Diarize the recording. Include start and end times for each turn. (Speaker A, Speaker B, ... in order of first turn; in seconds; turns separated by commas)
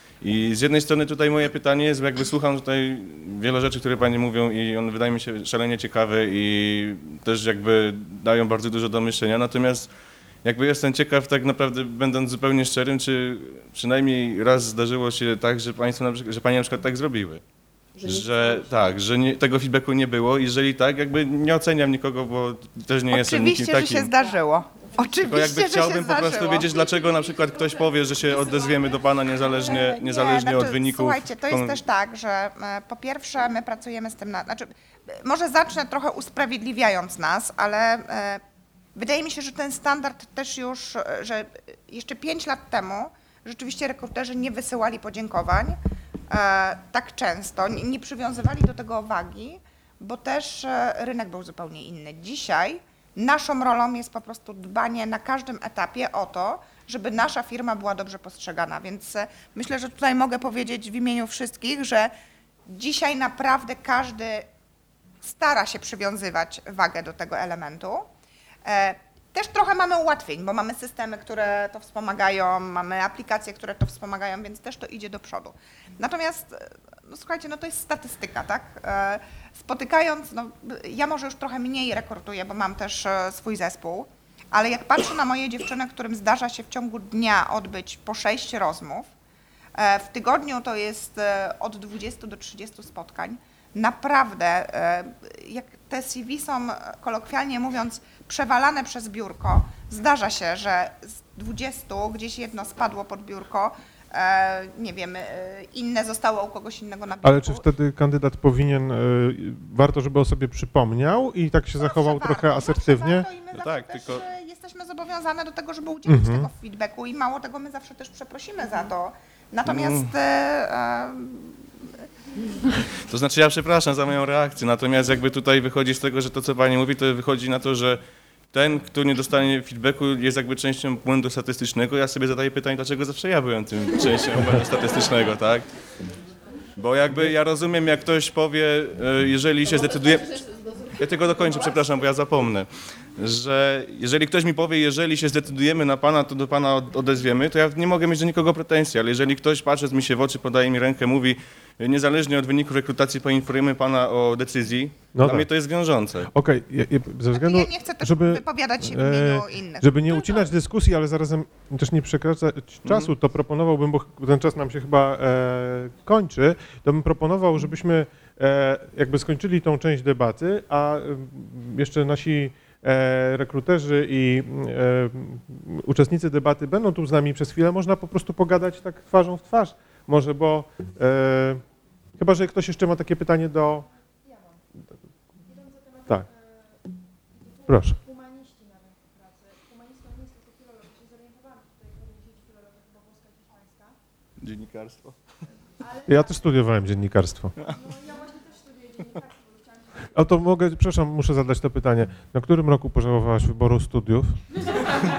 Speaker A: 0.2-9.9, Speaker A: 10.4-17.4, Speaker A: 18.0-24.1, Speaker B: 23.1-26.8, Speaker A: 25.2-31.8, Speaker B: 29.6-34.7, Speaker B: 35.2-38.4, Speaker B: 39.0-45.8, Speaker B: 46.3-62.1, Speaker B: 62.7-64.5, Speaker B: 65.2-68.1, Speaker B: 68.7-89.1, Speaker B: 89.8-107.7, Speaker C: 107.2-113.3, Speaker B: 111.8-121.8, Speaker A: 113.6-114.2, Speaker C: 116.1-116.5, Speaker A: 119.7-120.1, Speaker A: 123.1-128.0, Speaker A: 128.5-135.7, Speaker A: 136.8-156.3, Speaker C: 155.1-155.5, Speaker C: 156.3-181.6, Speaker B: 157.3-160.5, Speaker A: 162.8-163.1, Speaker C: 182.2-183.9, Speaker C: 187.7-188.0, Speaker A: 194.4-195.2, Speaker C: 196.1-197.6, Speaker C: 200.1-204.6